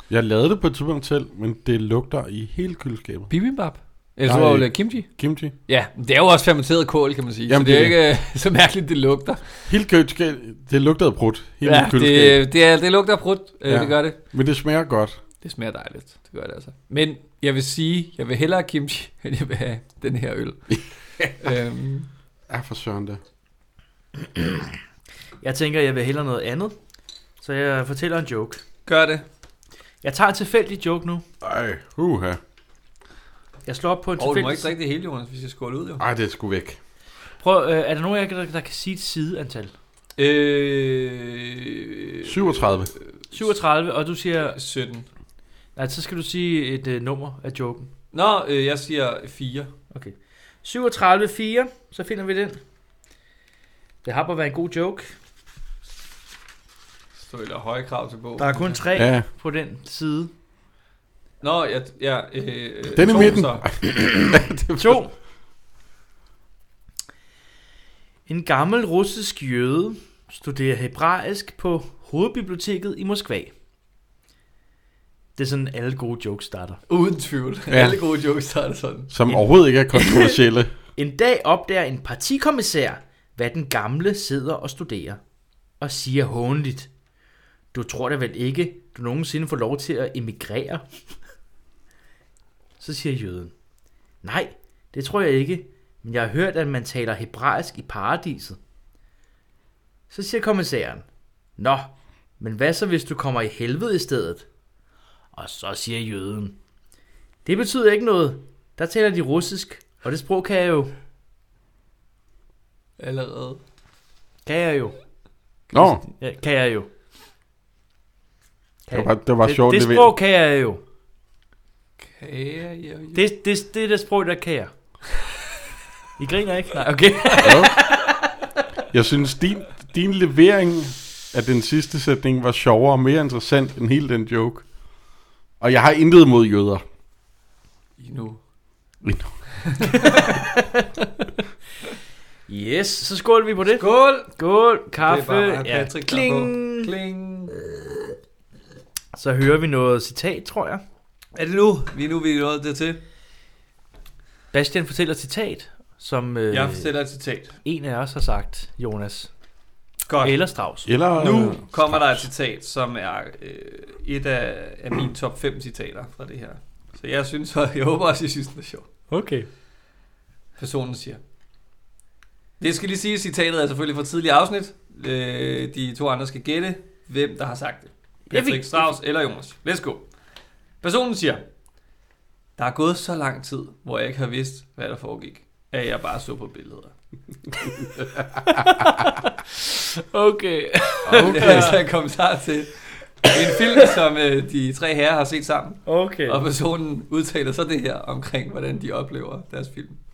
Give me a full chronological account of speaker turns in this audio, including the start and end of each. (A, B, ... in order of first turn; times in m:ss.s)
0:00.1-0:03.3 A
0:03.3-0:09.6 B
0:04.2-0:05.5 A
0:07.5-0:08.0 A
0:09.7-0:12.4 A
0:11.6-0:14.2 B
0:13.6-0:15.2 A
0:15.4-0:22.1 B
0:22.5-0:23.2 A
0:24.3-0:24.7 C
0:25.4-0:26.8 C
0:27.4-0:28.6 C
0:28.9-0:29.3 B
0:30.0-0:31.2 C
0:31.4-0:32.4 A
0:33.7-0:34.8 C
0:34.2-0:36.0 B
0:36.0-0:36.8 A
0:37.4-0:39.7 C
0:40.2-0:42.9 B
0:42.2-0:42.9 A
0:43.3-0:44.6 C
0:44.4-0:45.1 B
0:45.8-0:47.9 C
0:48.1-0:49.7 B
0:49.9-0:52.6 C
0:54.0-0:55.1 C
0:57.3-0:58.8 B
0:58.4-1:00.3 C
0:59.0-0:59.3 A
1:01.4-1:03.7 B
1:02.9-1:05.0 A
1:04.8-1:05.1 C
1:08.3-1:13.5 C
1:15.4-1:16.8 C
1:16.9-1:19.1 B
1:17.7-1:18.1 A
1:19.1-1:20.7 A
1:19.9-1:20.2 B
1:21.0-1:25.2 C
1:25.8-1:26.9 C
1:27.7-1:30.8 C
1:32.8-1:33.5 C
1:34.2-1:38.6 C
1:40.1-1:41.0 C
1:41.6-1:44.5 C
1:45.3-1:46.6 C
1:47.4-1:51.0 C
1:53.0-1:53.6 B
1:54.4-1:55.0 C
1:55.7-1:56.0 A
1:55.7-1:56.9 C
1:58.9-2:00.8 C
1:58.9-2:00.1 A
2:02.0-2:03.3 B
2:03.1-2:04.7 C
2:06.2-2:08.4 C
2:07.4-2:07.8 A
2:08.9-2:14.7 A
2:15.6-2:16.8 A
2:18.0-2:18.4 B
2:19.0-2:19.3 A
2:19.6-2:20.4 B
2:20.1-2:20.9 C
2:22.5-2:26.9 C
2:23.7-2:24.4 B
2:25.0-2:27.6 B
2:29.1-2:30.8 C
2:31.4-2:33.0 B
2:34.5-2:36.9 C
2:36.5-2:37.6 B
2:37.6-2:39.3 C
2:40.1-2:40.4 B
2:40.2-2:40.9 C
2:40.9-2:42.3 A
2:41.2-2:48.9 B
2:49.1-2:49.5 C
2:50.6-2:51.2 B
2:52.6-3:00.1 B
2:58.3-2:58.9 C
3:00.8-3:01.4 B
3:02.6-3:06.9 B
3:08.5-3:11.8 C
3:11.1-3:11.8 A
3:11.1-3:20.0 B
3:15.9-3:16.4 C